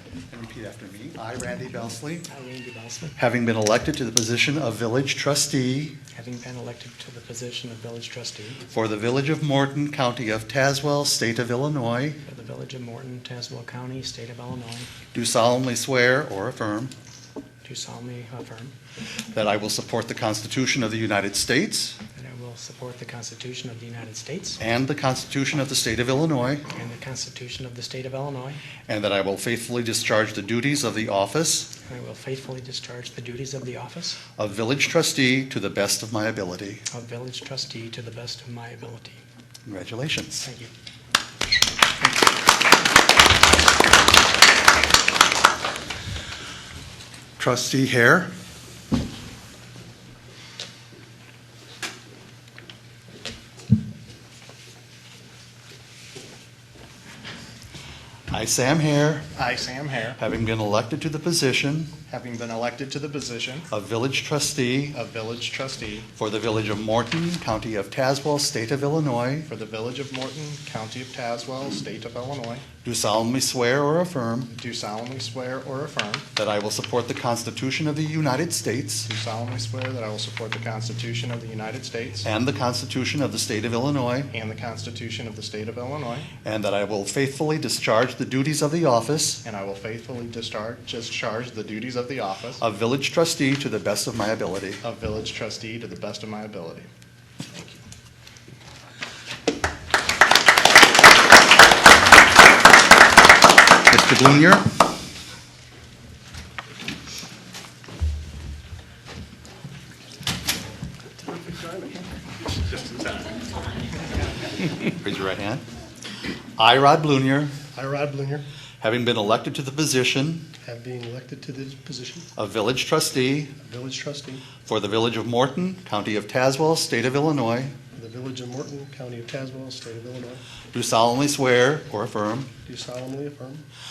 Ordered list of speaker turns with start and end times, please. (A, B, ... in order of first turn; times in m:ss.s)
0:00.3-0:02.3 A
0:02.2-0:03.2 B
0:03.2-0:06.0 A
0:06.1-0:08.6 B
0:08.7-0:12.2 A
0:12.2-0:14.9 B
0:15.1-0:16.9 A
0:17.6-0:18.7 B
0:19.3-0:22.0 A
0:22.2-0:24.6 B
0:24.6-0:26.6 A
0:26.7-0:28.6 B
0:28.9-0:31.7 A
0:31.8-0:34.2 B
0:34.4-0:36.8 A
0:36.9-0:39.2 B
0:39.6-0:40.5 A
0:40.4-0:40.7 B
0:47.4-0:48.3 A
0:58.3-0:59.3 A
0:59.3-1:00.2 C
1:00.2-1:01.9 A
1:02.1-1:03.7 C
1:03.7-1:05.0 A
1:04.9-1:06.1 C
1:06.2-1:09.5 A
1:09.4-1:12.6 C
1:12.8-1:14.5 A
1:14.5-1:16.2 C
1:16.4-1:19.1 A
1:19.0-1:22.2 C
1:22.2-1:24.3 A
1:24.3-1:26.3 C
1:26.4-1:29.4 A
1:29.4-1:32.6 C
1:32.6-1:34.8 A
1:34.8-1:36.9 C
1:43.9-1:44.6 A
1:51.2-1:52.0 D
1:52.6-1:53.4 D
1:54.8-1:55.6 A
1:56.6-1:57.6 A
1:57.7-1:58.4 D
1:58.8-2:00.4 A
2:00.6-2:02.3 D
2:02.4-2:03.5 A
2:03.6-2:04.4 D
2:04.6-2:07.7 A
2:07.9-2:10.4 D
2:10.7-2:12.5 A
2:12.6-2:13.6 D